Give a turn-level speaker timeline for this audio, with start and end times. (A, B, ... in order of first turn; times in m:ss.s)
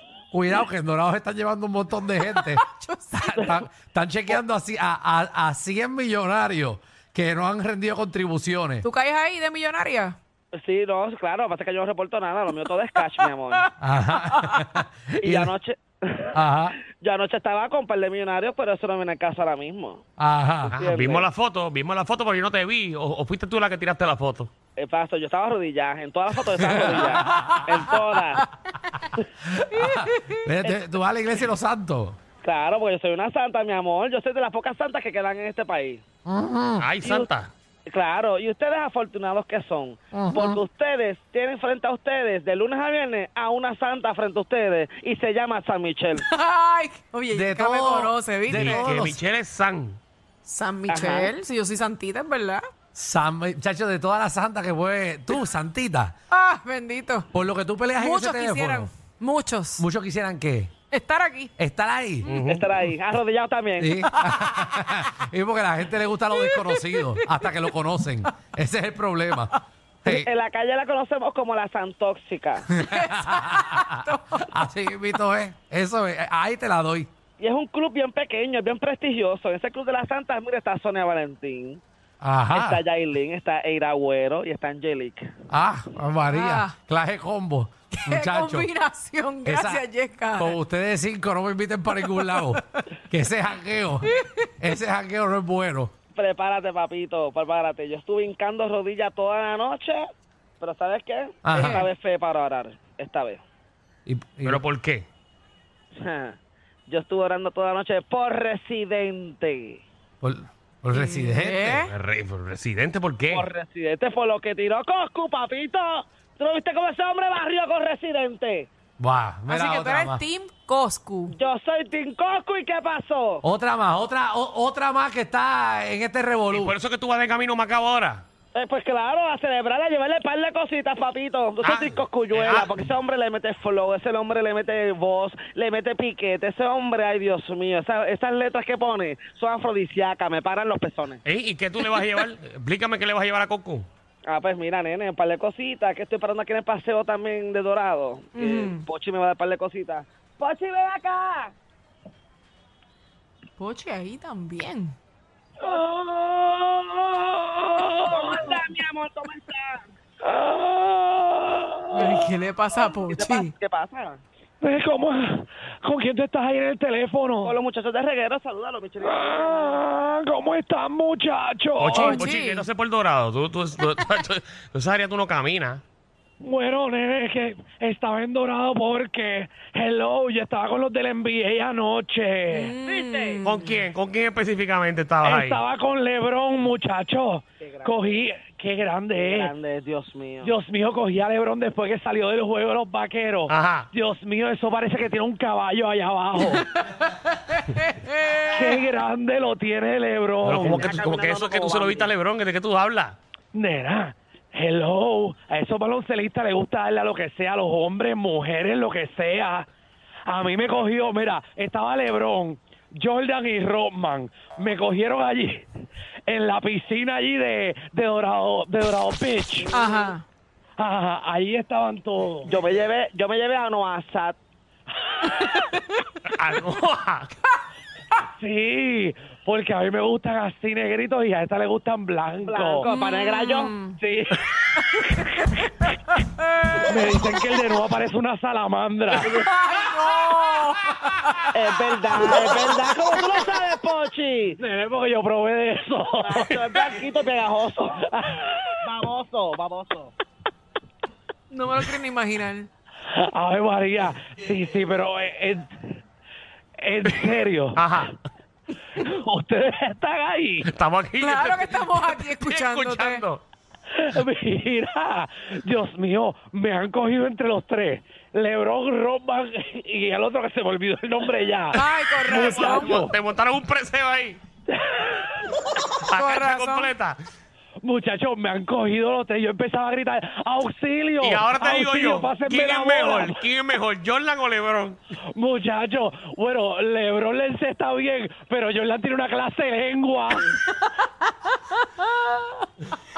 0:00.3-0:08.8 A
0:02.2-0:03.5 B
0:08.8-0:10.2 B
0:10.5-0:13.7 C
0:13.8-0:15.5 A
0:14.2-0:14.8 B
0:15.2-0:16.4 C
0:16.3-0:16.8 A
0:16.9-0:20.0 C
0:20.2-0:20.8 A
0:20.7-0:24.5 D
0:20.7-0:21.3 C
0:24.8-0:28.4 C
0:26.6-0:28.1 A
0:29.4-0:32.2 A
0:29.8-0:30.5 B
0:32.4-0:36.0 C
0:36.3-0:36.9 A
0:36.8-0:37.5 D
0:37.0-0:37.3 C
0:37.9-0:46.2 C
0:40.1-0:40.6 A
0:46.2-0:48.9 B
0:47.3-0:49.2 A
0:48.5-0:50.0 D
0:50.4-0:52.6 B
0:50.9-0:51.3 C
0:53.0-0:56.2 A
0:56.3-0:57.3 B
0:57.3-0:58.9 A
0:58.0-0:59.9 B
0:59.8-1:00.7 A
1:00.9-1:01.5 B
1:01.6-1:02.3 A
1:02.3-1:02.6 D
1:02.5-1:04.0 C
1:03.8-1:09.5 A
1:04.2-1:04.5 B
1:06.4-1:07.5 B
1:10.1-1:12.7 C
1:12.8-1:13.9 A
1:12.8-1:14.6 B
1:14.5-1:17.1 A
1:17.4-1:21.8 C
1:22.2-1:22.8 A
1:22.5-1:25.3 C
1:25.5-1:28.7 A
1:26.3-1:26.8 B
1:27.9-1:30.6 B
1:29.4-1:29.8 A
1:30.4-1:35.9 A
1:32.1-1:32.4 B
1:36.2-1:40.1 C
1:40.6-1:43.4 C
1:41.4-1:41.9 A
1:41.5-1:41.8 B
1:44.1-1:44.6 A
1:44.4-1:45.1 D
1:45.9-1:49.8 C
1:50.2-1:51.8 A
1:50.9-1:51.9 B
1:51.9-1:53.5 D
1:53.3-1:58.7 C
1:59.0-2:00.2 A
1:59.5-2:01.4 B
2:01.3-2:03.4 C
2:03.4-2:06.8 A
2:06.5-2:08.2 D
2:08.6-2:21.2 C
2:11.6-2:12.7 D
2:21.2-2:23.9 D
2:24.3-2:31.5 C
2:28.3-2:28.9 B
2:33.6-2:35.0 B
2:35.6-2:38.5 E
2:38.0-2:39.9 C
2:40.2-2:42.4 E
2:41.9-2:43.5 B
2:42.8-2:44.2 C
2:44.6-2:47.6 E
2:47.4-2:49.8 C
2:49.0-2:52.3 E
2:51.8-2:55.8 D
2:51.9-2:52.7 B
2:56.4-3:02.8 E
3:02.5-3:03.7 B
3:02.8-3:03.4 C
3:03.4-3:05.6 D
3:05.2-3:09.5 E
3:07.6-3:08.2 C
3:09.2-3:10.5 C
3:10.4-3:16.7 E
3:13.5-3:13.9 D
3:17.6-3:18.8 B
3:18.5-3:20.9 E
3:20.4-3:23.2 D
3:20.6-3:22.1 C
3:23.5-3:29.7 E
3:30.3-3:35.7 E
3:36.3-3:39.7 E
3:39.7-3:40.2 B
3:39.7-3:40.1 C
3:40.8-3:42.5 E
3:42.5-3:44.4 C
3:45.1-3:45.7 E
3:46.3-3:47.3 D
3:48.2-3:52.9 E
3:52.5-3:53.7 C
3:52.8-3:54.0 B
3:54.0-3:55.7 E
3:56.8-3:59.4 E
3:59.3-4:01.5 B
4:01.5-4:04.6 C
4:02.2-4:02.7 E
4:04.6-4:06.9 E
4:06.2-4:08.1 C
4:08.1-4:08.8 E
4:08.8-4:10.1 C
4:11.5-4:12.7 B
4:13.1-4:15.8 E
4:16.8-4:17.8 E
4:17.8-4:18.2 D
4:19.0-4:20.7 E
4:20.7-4:23.4 D
4:21.2-4:23.2 B
4:23.9-4:33.2 E
4:31.8-4:33.0 B
4:31.8-4:34.4 D
4:34.7-4:35.5 E
4:36.1-4:37.2 D
4:36.1-4:36.9 B
4:37.8-4:43.4 E
4:41.2-4:45.0 D
4:45.3-4:50.6 E
4:51.8-4:52.0 B